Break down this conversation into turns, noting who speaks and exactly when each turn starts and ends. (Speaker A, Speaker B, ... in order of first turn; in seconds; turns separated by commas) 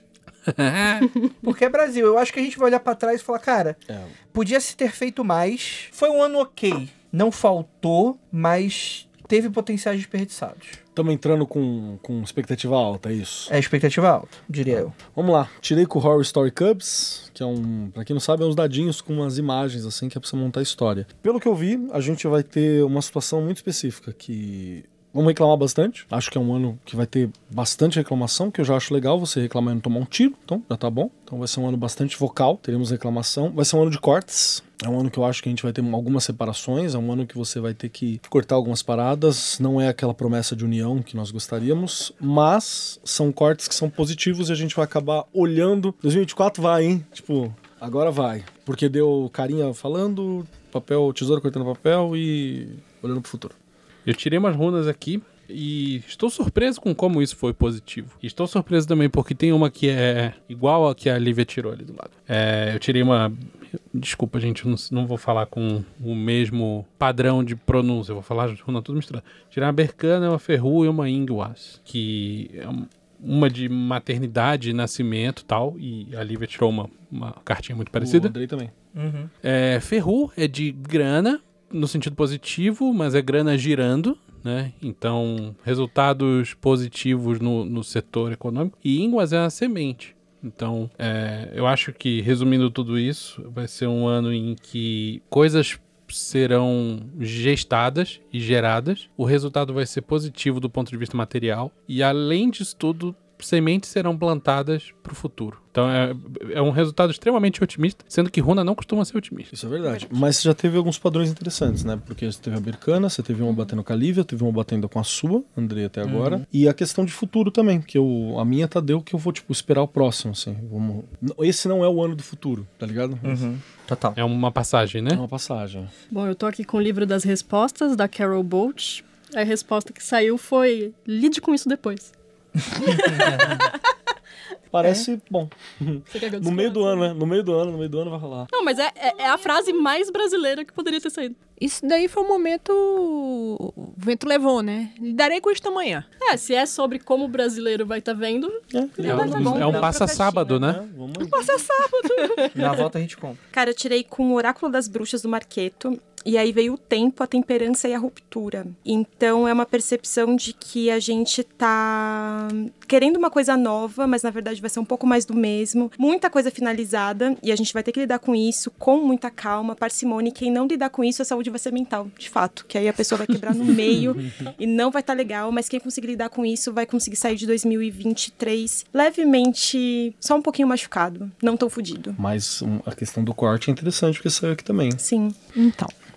Speaker A: 0.5-1.1, Speaker B: 1.4-3.8, Speaker C: 3.9-4.2, Speaker B: 4.3-10.8, Speaker C: 10.9-13.5, Speaker B: 13.5-14.9, Speaker C: 14.7-53.6, Speaker A: 54.1-78.3, Speaker C: 78.0-78.7, Speaker B: 78.9-79.3, Speaker A: 79.4-109.5, Speaker C: 109.5-123.5, Speaker B: 116.0-116.4, Speaker B: 123.2-124.2, Speaker A: 124.2-125.2, Speaker C: 125.1-125.9, Speaker D: 126.1-132.1, Speaker B: 132.7-133.6, Speaker D: 132.9-133.5, Speaker C: 134.7-138.5, Speaker D: 136.1-137.1, Speaker D: 138.5-141.4, Speaker E: 139.2-139.8, Speaker E: 141.6-146.1, Speaker D: 146.2-150.1, Speaker C: 148.7-149.8, Speaker A: 149.0-150.8, Speaker B: 149.1-150.2, Speaker C: 150.6-151.7, Speaker E: 151.2-152.6, Speaker D: 152.2-152.8, Speaker B: 152.5-153.4, Speaker F: 153.5-182.2, Speaker C: 182.2-185.0, Speaker F: 185.0-185.4, Speaker E: 185.6-185.9